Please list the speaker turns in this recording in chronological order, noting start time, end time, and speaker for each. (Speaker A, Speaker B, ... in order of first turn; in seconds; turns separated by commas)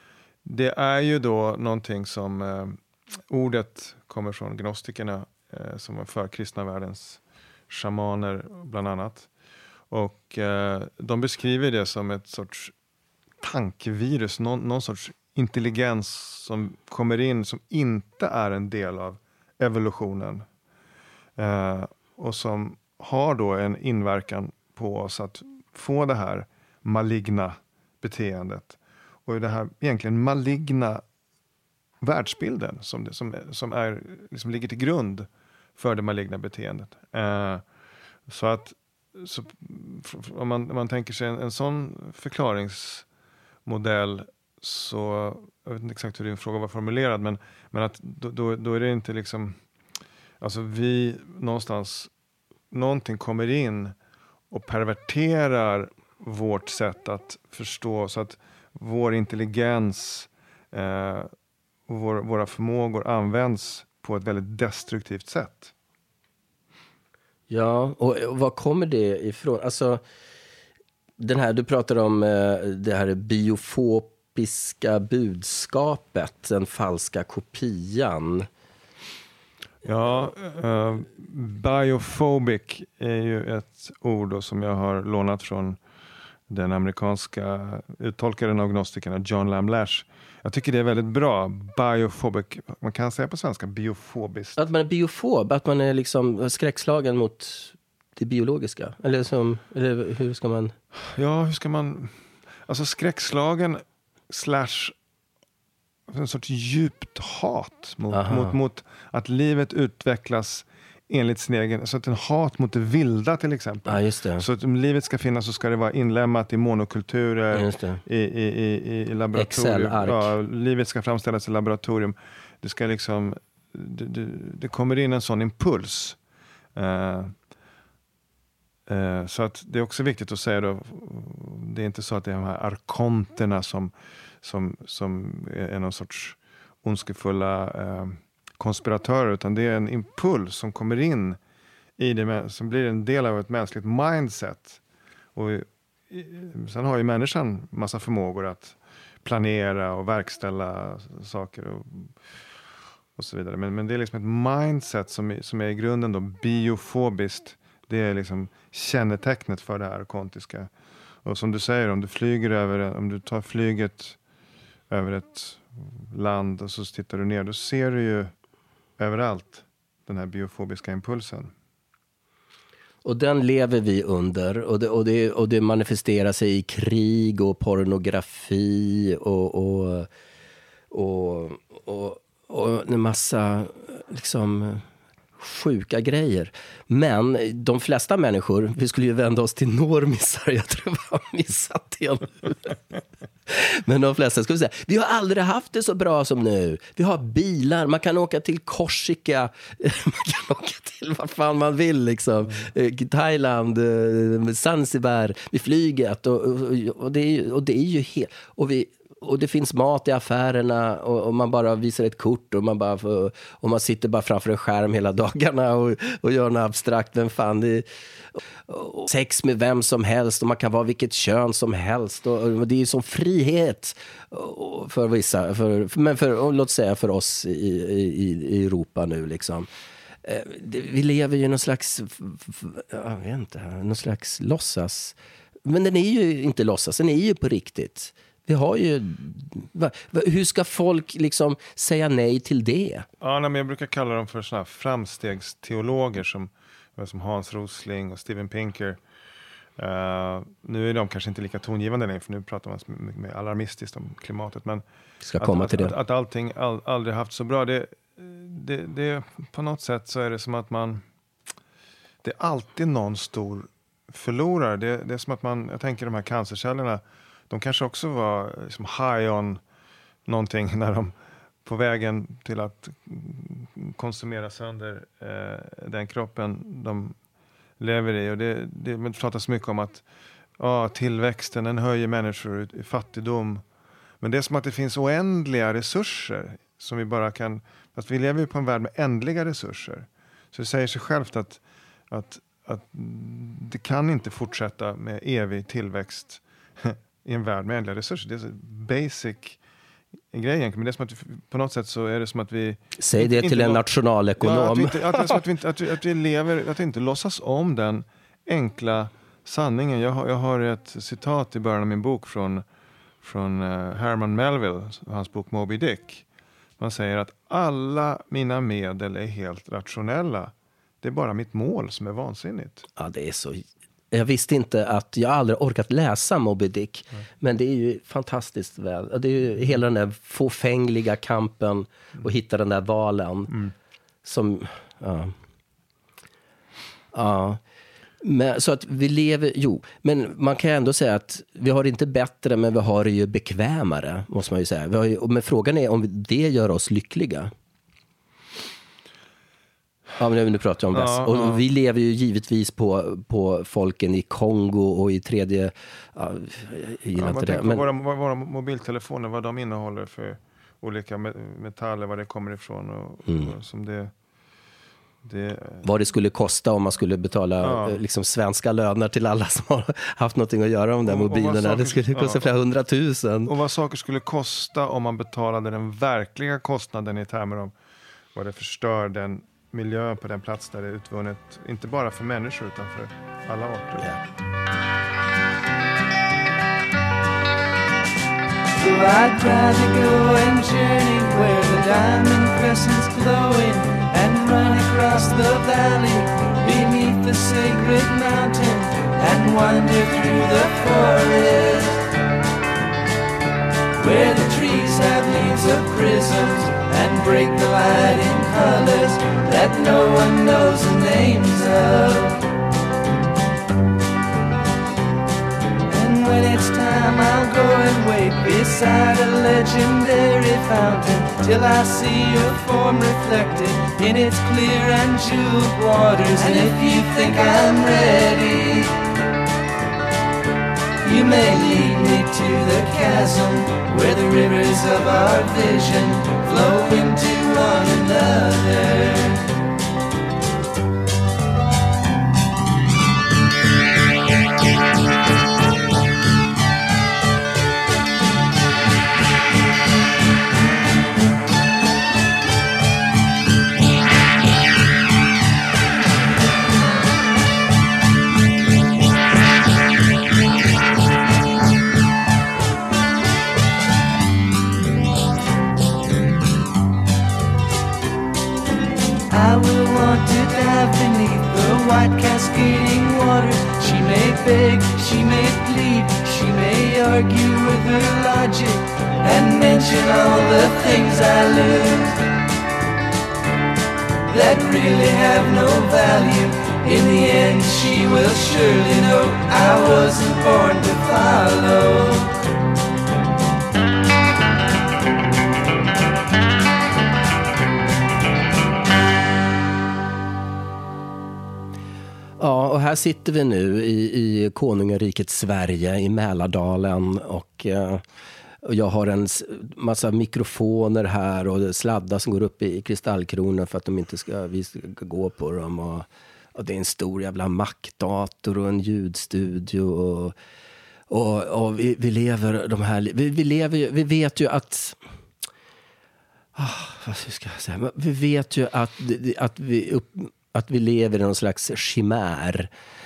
Speaker A: 0.4-2.8, Speaker A: 3.3-9.3, Speaker A: 9.9-12.7, Speaker A: 13.4-20.4, Speaker A: 21.4-31.0, Speaker A: 32.0-37.6, Speaker A: 38.3-43.0, Speaker A: 43.6-49.6, Speaker A: 50.4-52.1, Speaker A: 52.7-53.9, Speaker A: 54.5-61.3, Speaker A: 61.9-65.7, Speaker B: 67.5-70.0, Speaker B: 71.2-78.5, Speaker A: 79.8-85.8, Speaker A: 86.5-94.6, Speaker B: 94.6-100.7, Speaker A: 101.1-102.1, Speaker A: 102.7-104.9, Speaker A: 106.1-126.2, Speaker B: 108.1-108.5, Speaker B: 113.9-114.5, Speaker B: 117.5-118.0, Speaker B: 119.3-120.3, Speaker A: 126.8-127.3, Speaker A: 128.9-141.4, Speaker A: 142.0-144.8, Speaker A: 145.3-152.1, Speaker A: 153.2-160.7, Speaker A: 161.2-164.2, Speaker A: 164.9-168.3, Speaker A: 169.0-171.5, Speaker B: 173.0-180.1, Speaker B: 180.9-184.8, Speaker B: 185.4-192.8, Speaker B: 193.5-217.9, Speaker B: 218.7-229.7, Speaker B: 230.2-243.1, Speaker A: 243.2-249.0, Speaker A: 249.8-254.8, Speaker B: 255.2-255.9, Speaker A: 255.4-261.0, Speaker A: 262.2-269.6, Speaker A: 270.2-271.1, Speaker A: 271.6-277.2, Speaker A: 277.8-280.0, Speaker A: 280.6-283.6, Speaker A: 284.2-299.6, Speaker A: 300.3-303.9, Speaker B: 303.0-305.4, Speaker A: 304.4-312.6, Speaker A: 313.2-316.2, Speaker A: 316.8-322.8, Speaker B: 322.9-333.5, Speaker B: 334.2-335.3, Speaker B: 337.1-337.6, Speaker B: 338.2-347.5, Speaker B: 350.2-357.9, Speaker A: 350.9-351.6, Speaker A: 357.1-364.1, Speaker B: 363.2-363.5, Speaker A: 365.2-365.8, Speaker B: 365.8-373.5, Speaker A: 367.6-368.0, Speaker A: 371.0-372.5, Speaker A: 373.4-377.7, Speaker A: 378.3-384.1, Speaker C: 388.8-402.1, Speaker C: 404.0-412.4, Speaker C: 415.9-429.0, Speaker C: 431.0-439.5, Speaker C: 469.3-482.2, Speaker C: 484.3-492.4, Speaker B: 502.4-508.0, Speaker B: 508.6-520.4, Speaker B: 521.1-525.0, Speaker B: 526.5-532.7